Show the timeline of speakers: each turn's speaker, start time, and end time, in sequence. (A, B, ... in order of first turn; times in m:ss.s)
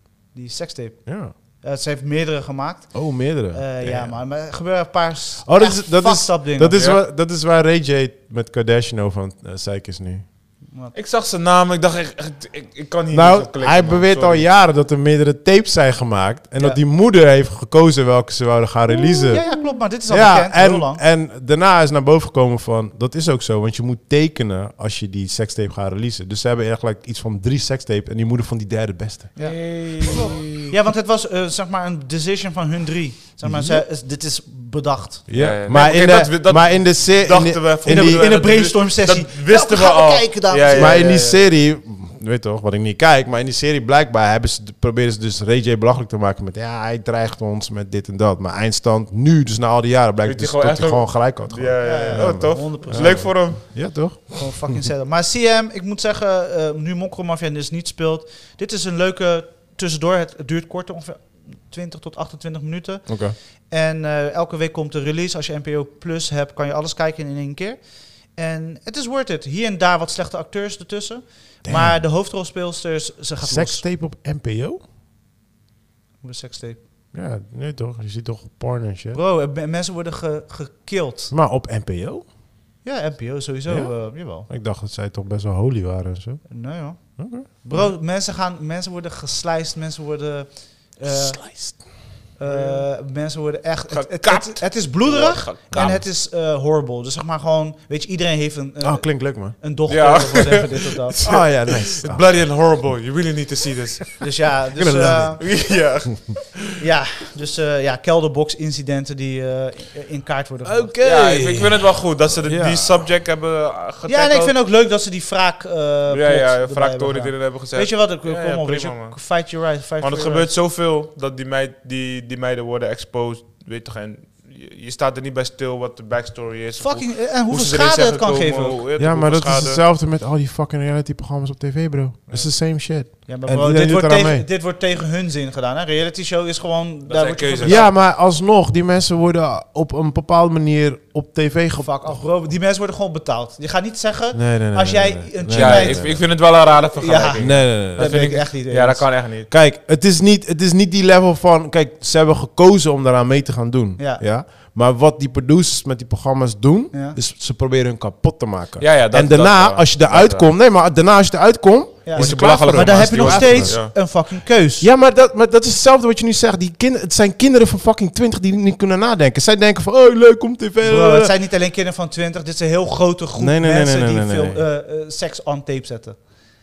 0:00.3-0:06.8 A
0:01.1-0:01.3 B
0:02.9-0:04.2 B
0:05.4-0:10.2 B
0:06.7-0:07.0 C
0:10.9-0:14.5 C
0:13.1-0:19.5 B
0:19.2-0:21.0 A
0:20.1-0:29.3 B
0:29.4-0:35.3 A
0:29.4-0:30.7 C
0:33.4-0:33.8 B
0:35.3-0:38.3 B
0:35.3-0:41.4 C
0:37.8-0:41.1 A
0:40.7-0:54.9 B
0:50.2-0:53.6 C
0:51.8-0:53.4 A
0:54.4-1:07.8 A
1:03.1-1:03.4 B
1:08.4-1:13.8 A
1:11.6-1:12.0 B
1:13.4-1:14.8 B
1:16.2-1:16.8 A
1:17.1-1:19.2 B
1:19.1-1:21.3 A
1:21.3-1:22.2 B
1:22.8-1:24.5 A
1:23.7-1:26.4 B
1:26.5-1:31.8 A
1:27.2-1:27.5 B
1:31.1-1:31.8 B
1:32.4-1:41.2 A
1:32.5-1:32.9 C
1:33.9-1:36.0 C
1:38.8-1:39.6 B
1:39.9-1:44.2 C
1:41.2-1:42.2 B
1:44.2-1:45.4 A
1:44.8-1:45.5 B
1:45.4-1:46.8 C
1:46.8-1:51.0 A
1:50.6-1:51.9 B
1:51.0-1:54.6 C
1:52.4-1:53.1 B
1:54.1-2:00.5 A
1:56.1-2:09.8 C
2:06.8-2:08.8 A
2:09.0-2:14.5 B
2:13.3-2:17.9 A
2:17.1-2:17.9 C
2:17.6-2:22.2 B
2:21.8-2:29.1 A
2:24.3-2:26.2 B
2:25.5-2:29.5 C
2:27.4-2:28.2 B
2:29.5-2:44.0 B
2:34.0-2:34.2 A
2:36.9-2:37.2 A
2:38.8-2:40.5 C
2:42.0-2:44.9 A
2:42.2-2:43.9 C
2:44.8-2:51.3 B
2:50.8-2:56.2 A
2:53.4-2:54.6 B